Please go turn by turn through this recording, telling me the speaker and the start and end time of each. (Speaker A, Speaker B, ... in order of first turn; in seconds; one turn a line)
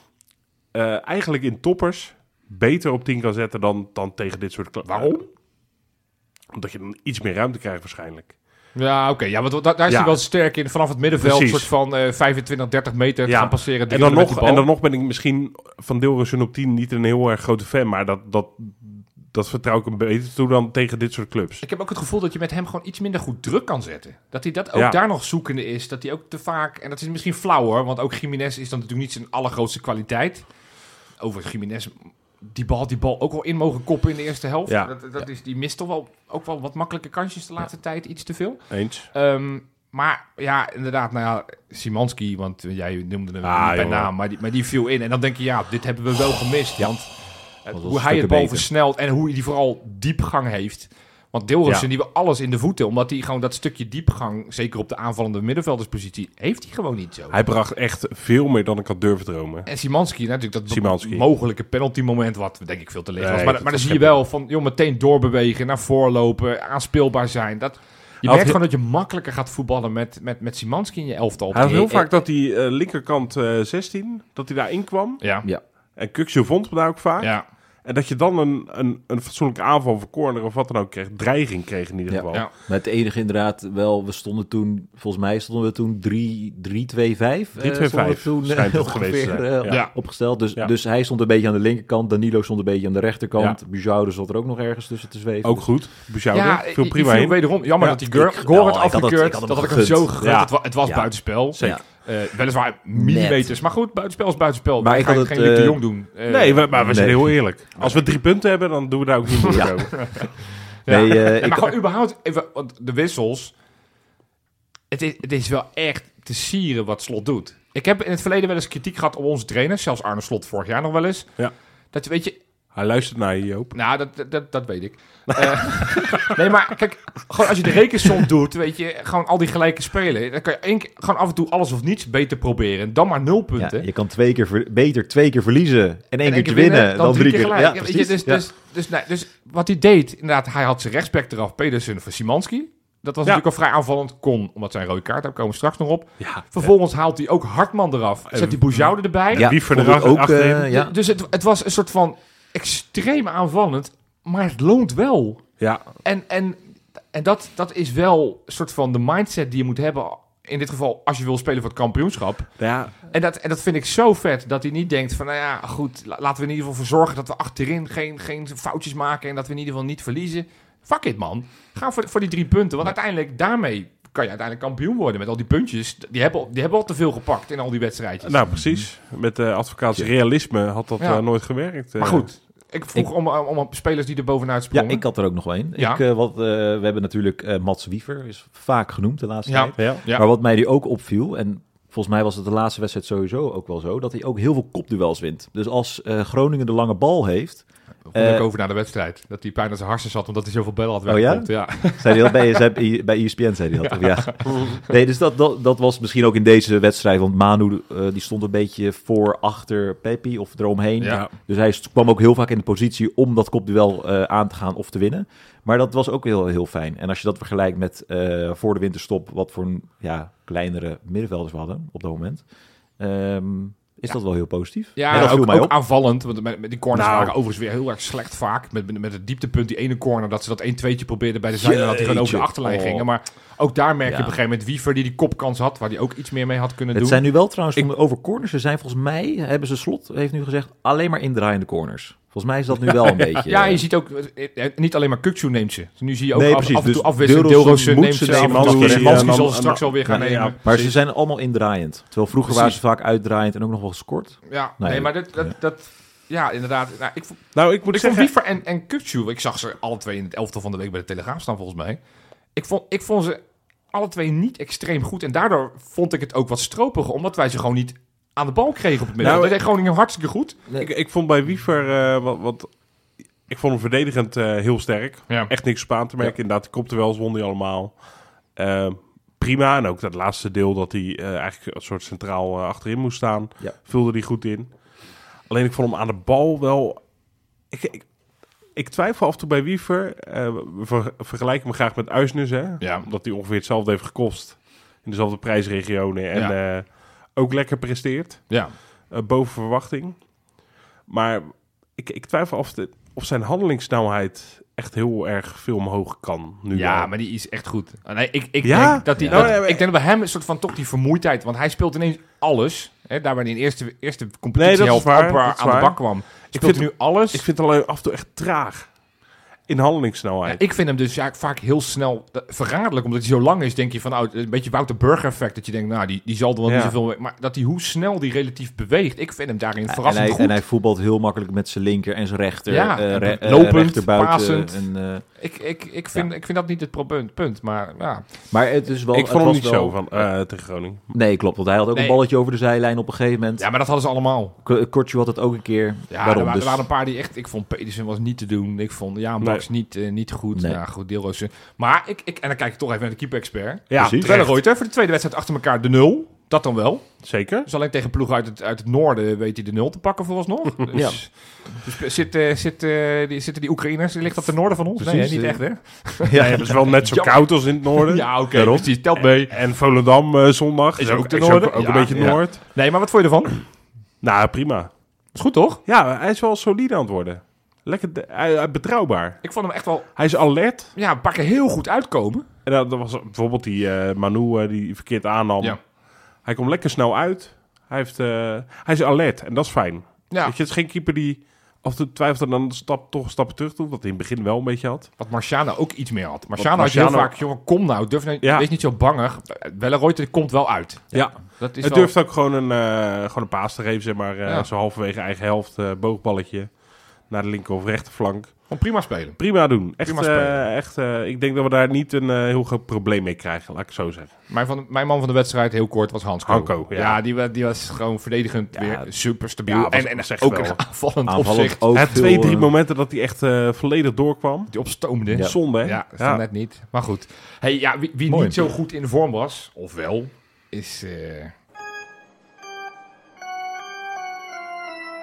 Speaker A: 0.7-5.2
Speaker B: 4.8-5.2
Speaker A: 6.5-8.3
Speaker B: 8.8-14.7
Speaker A: 9.9-10.2
Speaker A: 11.2-11.7
Speaker A: 13.2-21.6
Speaker B: 21.6-30.4
Speaker B: 31.2-47.1
Speaker A: 38.7-39.1
Speaker A: 43.4-44.1
Speaker B: 47.6-57.4
Speaker C: 47.7-48.7
Speaker A: 57.3-59.7
Speaker B: 59.6-72.1
Speaker A: 60.7-61.2
Speaker A: 63.2-64.2
Speaker A: 68.2-68.6
Speaker A: 71.5-75.2
Speaker B: 75.2-75.5
Speaker A: 76.0-77.3
Speaker B: 77.2-77.4
Speaker A: 77.8-82.5
Speaker C: 82.1-95.7
Speaker A: 87.6-89.9
Speaker A: 95.4-97.4
Speaker B: 96.3-106.7
Speaker C: 97.8-100.1
Speaker A: 100.2-100.5
Speaker C: 100.8-101.8
Speaker C: 102.9-103.6
Speaker C: 104.8-105.8
Speaker A: 106.3-110.3
Speaker C: 106.7-108.0
Speaker C: 109.4-109.8
Speaker B: 109.9-110.3
Speaker B: 110.8-113.5
Speaker C: 110.9-111.7
Speaker B: 114.9-121.3
Speaker B: 121.9-122.4
Speaker A: 122.7-123.7
Speaker B: 123.7-133.8
Speaker A: 125.4-126.3
Speaker C: 133.6-138.4
Speaker B: 136.2-149.5
Speaker A: 146.2-146.7
Speaker A: 148.3-150.7
Speaker C: 149.3-150.9
Speaker B: 150.7-155.4
Speaker A: 155.6-155.8
Speaker B: 156.0-156.6
Speaker B: 157.1-178.5
Speaker A: 162.6-162.9
Speaker A: 178.2-182.3
Speaker B: 182.0-185.1
Speaker C: 184.7-198.5
Speaker B: 185.7-186.0
Speaker B: 189.5-190.2
Speaker A: 189.8-190.0
Speaker B: 198.1-202.6
Speaker C: 201.1-222.4
Speaker B: 203.8-204.7
Speaker B: 211.0-211.3
Speaker C: 223.0-225.8
Speaker B: 224.9-237.9
Speaker A: 226.9-227.3
Speaker C: 231.6-233.1
Speaker C: 234.1-234.4
Speaker C: 236.9-243.8
Speaker B: 243.4-250.6
Speaker C: 246.3-249.5
Speaker A: 248.3-250.9
Speaker C: 250.0-255.5
Speaker B: 252.4-252.8
Speaker B: 254.5-262.0
Speaker A: 257.5-258.3
Speaker B: 262.5-263.4
Speaker B: 263.9-270.6
Speaker A: 269.2-269.6
Speaker A: 270.8-272.7
Speaker A: 273.5-277.9
Speaker A: 278.6-284.7
Speaker A: 285.5-287.0
Speaker A: 287.7-288.1
Speaker A: 288.7-298.6
Speaker B: 292.8-293.1
Speaker A: 299.1-300.2
Speaker A: 301.1-307.1
Speaker B: 306.7-317.4
Speaker A: 308.6-309.9
Speaker C: 309.2-309.6
Speaker A: 314.6-318.9
Speaker A: 319.7-320.6
Speaker B: 320.4-330.6
Speaker A: 326.7-326.9
Speaker C: 329.9-335.2
Speaker B: 332.7-334.8
Speaker B: 335.4-338.2
Speaker C: 338.5-340.2
Speaker A: 339.1-341.0
Speaker C: 341.1-343.7
Speaker B: 341.9-342.2
Speaker B: 343.6-344.6
Speaker C: 344.6-346.8
Speaker B: 346.1-369.5
Speaker C: 350.5-350.8
Speaker A: 353.9-354.5
Speaker C: 354.0-354.4
Speaker A: 357.2-357.7
Speaker C: 360.9-361.2
Speaker C: 365.0-365.6
Speaker C: 366.2-366.7
Speaker A: 366.3-368.3
Speaker C: 368.5-368.9
Speaker A: 369.2-372.6
Speaker B: 371.0-373.6
Speaker C: 372.1-372.4
Speaker A: 374.2-374.9
Speaker B: 375.3-375.8
Speaker A: 375.9-379.4
Speaker B: 379.4-380.1
Speaker A: 380.1-380.9
Speaker B: 380.9-382.4
Speaker A: 382.6-385.8
Speaker A: 386.4-395.1
Speaker B: 395.2-402.1
Speaker A: 396.6-397.4
Speaker A: 398.4-398.7
Speaker A: 401.1-406.7
Speaker A: 407.3-408.7
Speaker B: 408.7-410.6
Speaker A: 409.4-414.3
Speaker B: 414.5-422.0
Speaker A: 416.4-417.2
Speaker C: 418.8-419.0
Speaker A: 419.7-420.8
Speaker C: 421.2-422.7
Speaker A: 421.9-424.8
Speaker B: 424.7-431.5
Speaker C: 425.3-425.6
Speaker A: 425.4-426.4
Speaker C: 428.3-428.6